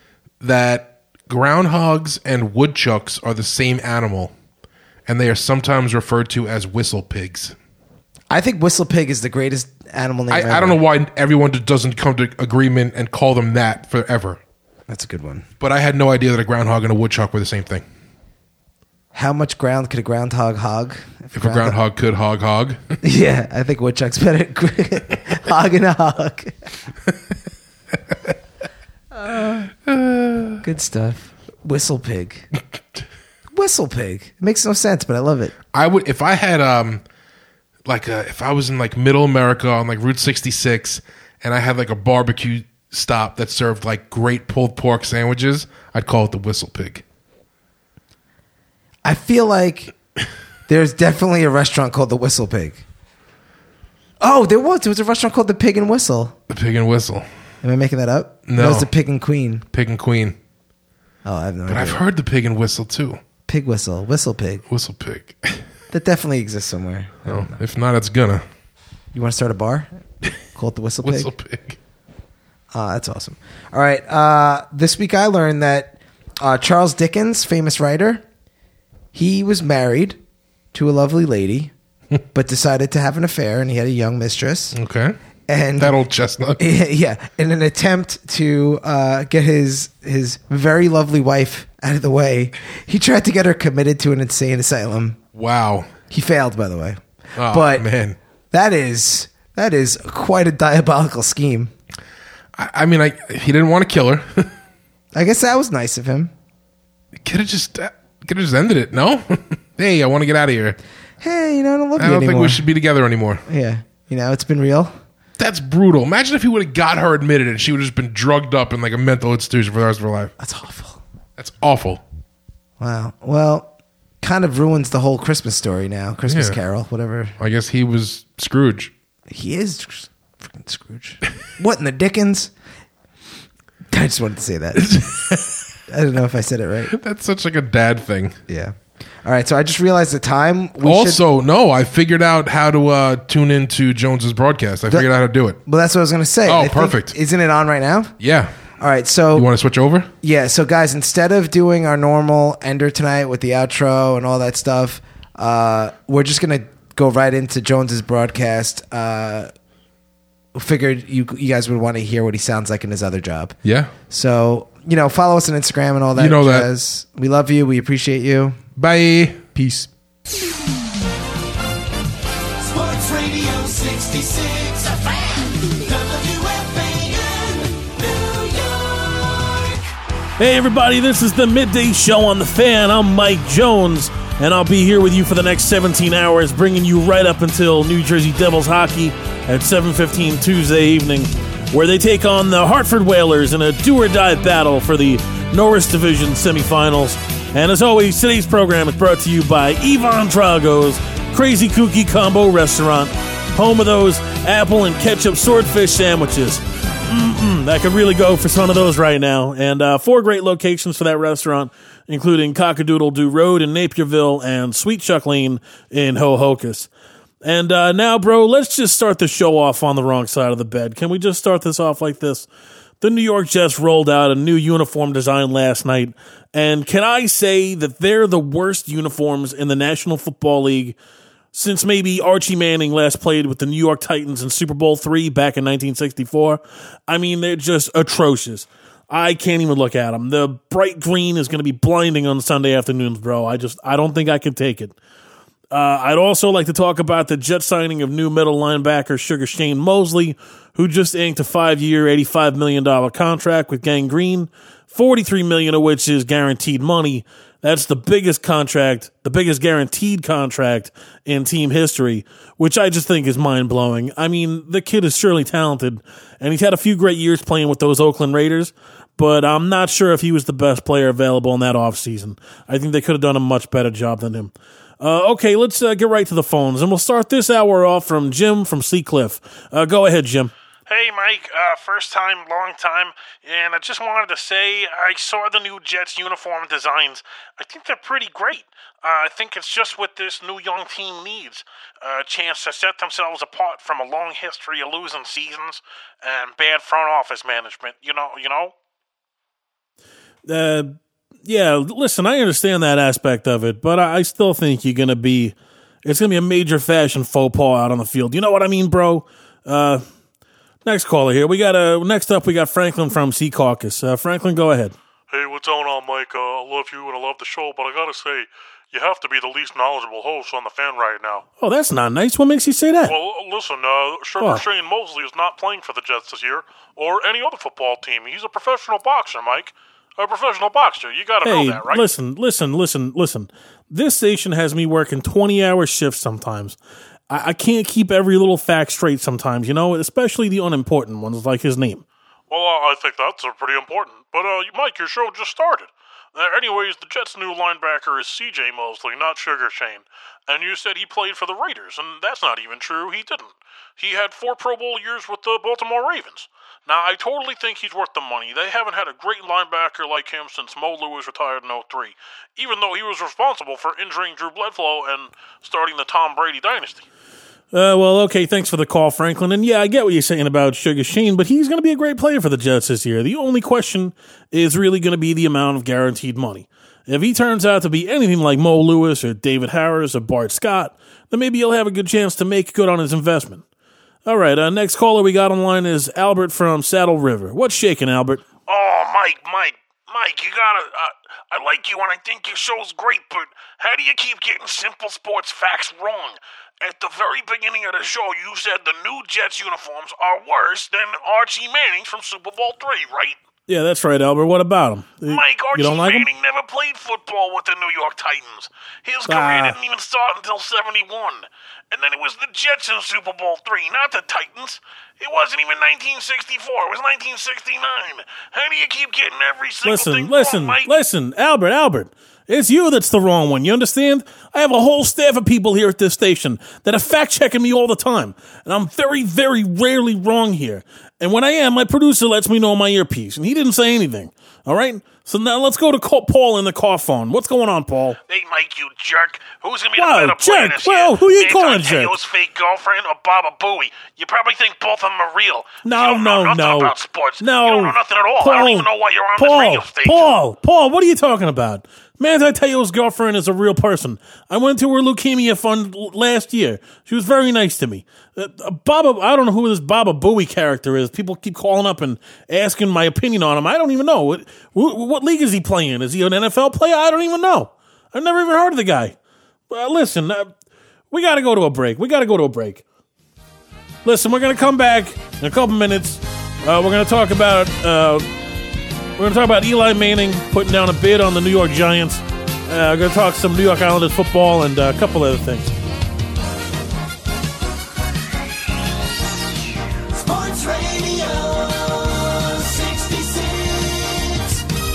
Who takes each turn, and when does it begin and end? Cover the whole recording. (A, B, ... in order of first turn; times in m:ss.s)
0:00.4-0:04.3 A
0:05.1-0:07.6 A
0:08.3-0:10.8 B
0:10.3-0:14.4 A
0:14.9-0:15.5 B
0:15.6-0:17.8 A
0:19.1-0:21.8 B
0:21.3-0:23.0 A
0:23.0-0:26.7 B
0:29.3-0:29.6 B
0:29.8-0:30.6 A
0:30.6-0:32.5 B
0:33.5-0:35.5 B
0:35.7-0:37.0 A
0:37.9-0:47.0 A
0:49.0-0:50.0 B
0:50.7-0:52.8 B
0:54.2-0:56.4 B
0:56.5-0:57.2 A
0:57.6-0:59.6 B
0:58.5-0:58.9 A
0:59.7-1:00.4 A
1:01.2-1:02.0 B
1:01.7-1:03.2 A
1:03.5-1:04.6 B
1:04.7-1:05.6 A
1:05.9-1:07.6 B
1:07.3-1:08.4 A
1:09.1-1:09.9 B
1:10.5-1:11.3 B
1:11.0-1:11.8 A
1:12.7-1:18.2 B
1:19.1-1:20.2 B
1:20.7-1:21.7 B
1:22.3-1:24.8 B
1:24.7-1:25.2 A
1:25.5-1:26.0 B
1:25.8-1:26.6 A
1:26.6-1:35.2 B
1:35.3-1:35.9 A
1:36.1-1:37.9 B
1:37.4-1:38.2 A
1:38.5-1:41.7 B
1:42.6-1:44.5 A
1:45.1-1:46.3 B
1:47.2-1:50.8 A
1:51.2-1:52.6 B
1:52.0-1:53.4 A
1:53.5-1:54.9 B
1:55.4-2:00.3 A
2:00.4-2:01.0 B
2:01.4-2:02.0 A
2:02.8-2:03.7 B
2:04.2-2:07.4 B
2:06.3-2:06.6 A
2:07.4-2:08.9 A
2:09.3-2:12.5 B
2:13.9-2:15.0 B
2:14.8-2:15.7 A
2:15.9-2:16.9 B
2:16.9-2:18.4 A
2:18.5-2:21.2 B
2:20.8-2:25.6 A
2:25.6-2:28.2 B
2:26.4-2:27.1 A
2:28.2-2:28.6 A
2:28.8-2:29.5 B
2:29.3-2:30.1 A
2:30.2-2:39.5 B
2:40.5-2:43.6 B
2:43.6-2:43.9 A
2:44.1-2:48.6 B
2:46.2-2:46.7 A
2:48.8-2:49.5 A
2:49.6-2:49.9 B
2:52.6-2:59.8 C
3:00.4-3:36.9 D
3:37.4-3:42.5 D
3:43.0-3:51.0 D
3:51.5-4:05.0 D
4:05.7-4:40.5 D
4:40.9-4:58.7 E
5:00.5-5:10.0 D
5:10.8-5:15.0 D
5:15.3-5:21.4 E
5:21.6-5:23.2 D
5:23.0-5:32.1 E
5:24.4-5:24.7 D
5:31.4-5:36.8 D
5:37.3-5:42.0 D
5:42.5-6:07.1 E
6:07.7-6:23.6 D
6:24.3-6:28.4 D
6:28.7-6:43.4 E
6:43.7-6:46.3 D
6:45.2-7:00.9 E
6:49.3-6:49.8 D
6:59.8-7:18.2 D
7:18.3-7:30.4 E
7:20.0-7:22.2 D
7:25.8-7:49.2 D
7:49.7-7:50.5 D
7:51.1-7:52.8 D
7:54.0-7:58.3 D
7:59.2-8:05.7 D
8:10.1-8:14.6 C